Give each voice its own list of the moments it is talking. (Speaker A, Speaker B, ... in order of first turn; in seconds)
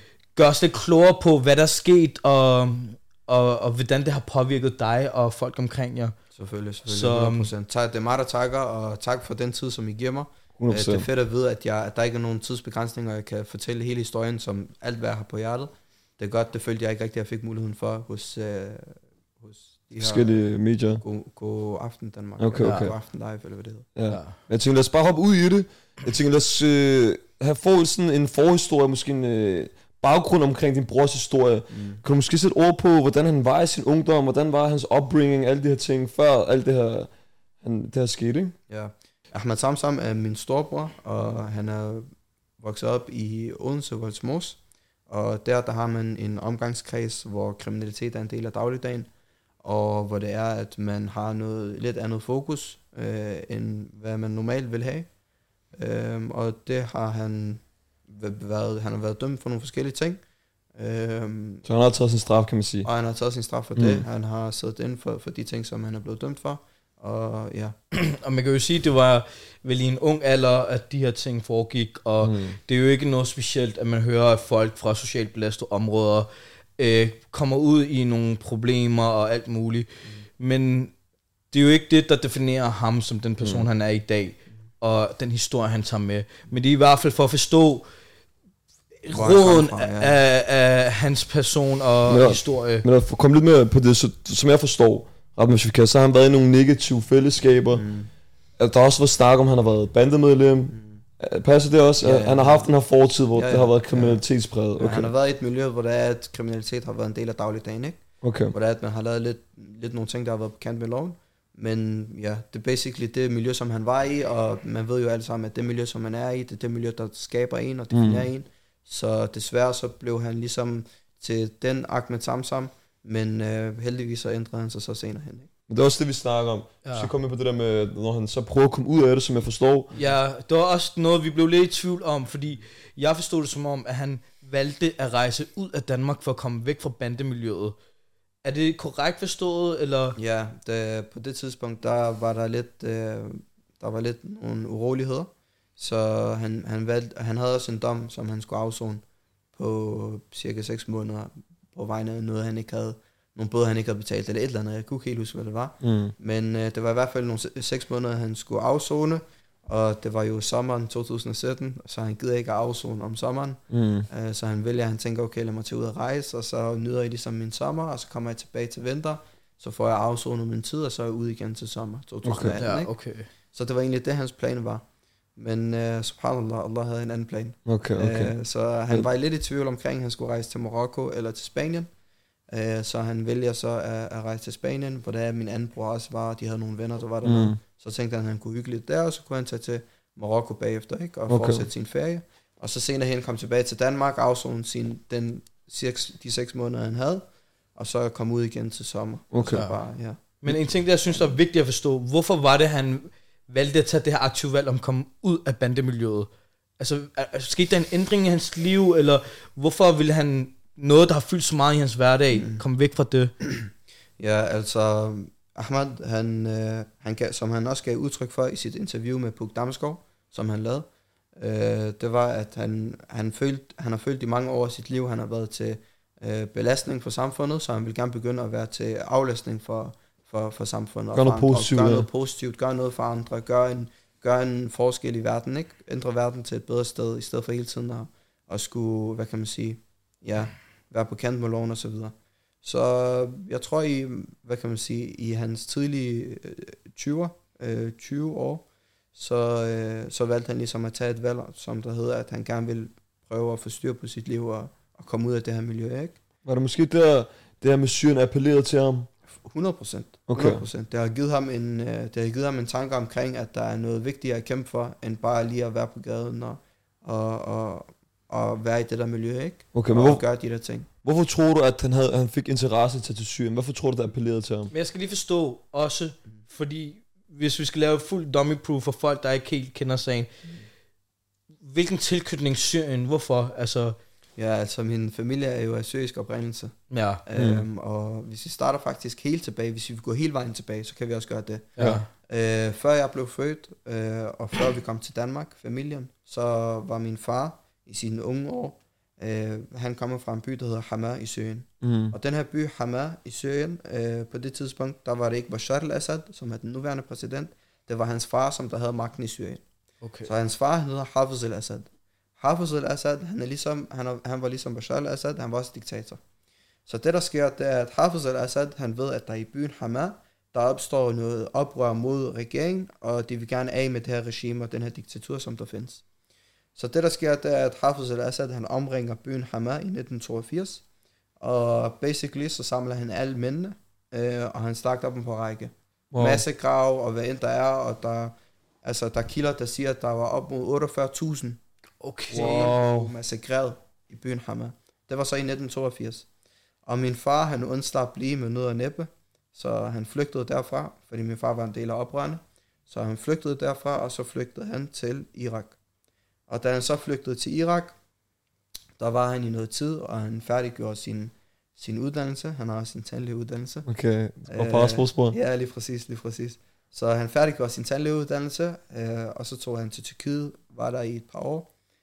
Speaker A: 0.3-6.2, 6.9-7.5, 22.6-22.9, 24.1-24.4, 67.9-80.9, 81.5-87.8, 89.0-92.8, 126.8-127.1, 129.9-137.8, 138.4-140.2, 172.6-173.3, 199.5-199.8, 200.4-213.3, 274.7-280.3, 281.6-284.0, 286.9-287.2, 291.8-292.1, 310.0-310.3, 342.0-342.8
Speaker B: 6.3-20.4, 21.0-23.9, 31.7-32.0, 38.7-42.1, 42.6-49.1, 49.6-55.1, 55.7-60.2, 60.8-61.6, 62.8-67.7, 89.1-90.1, 97.7-98.1, 100.7-101.0, 102.0-102.7, 103.3-104.2, 104.8-125.5, 140.2-149.0, 149.6-172.9, 173.5-174.8, 175.3-181.9, 182.5-197.2, 197.8-200.2, 214.2-256.2, 259.4-270.9, 284.4-309.6, 310.2-311.9, 312.4-316.2, 316.9-326.0, 326.8-330.8, 331.4-341.6, 342.3-346.2, 346.9-355.8, 356.5-357.9, 359.0-363.9, 364.5-371.7
Speaker C: 10.6-11.1, 20.0-21.0, 22.4-22.9, 23.9-37.1, 37.6-38.5, 61.6-62.9, 63.8-64.0, 72.2-72.6, 92.1-97.8, 98.6-105.1, 108.2-108.5, 117.9-118.2, 125.7-129.9, 155.8-156.1, 163.7-164.1, 172.2-172.6, 177.7-178.3, 187.2-187.6, 191.3-191.6, 199.3-199.6, 231.1-232.1, 256.4-259.1, 260.3-260.6, 269.7-270.2, 271.0-274.7, 287.4-287.6, 301.8-302.1, 336.1-336.4, 342.3-343.1, 363.9-365.4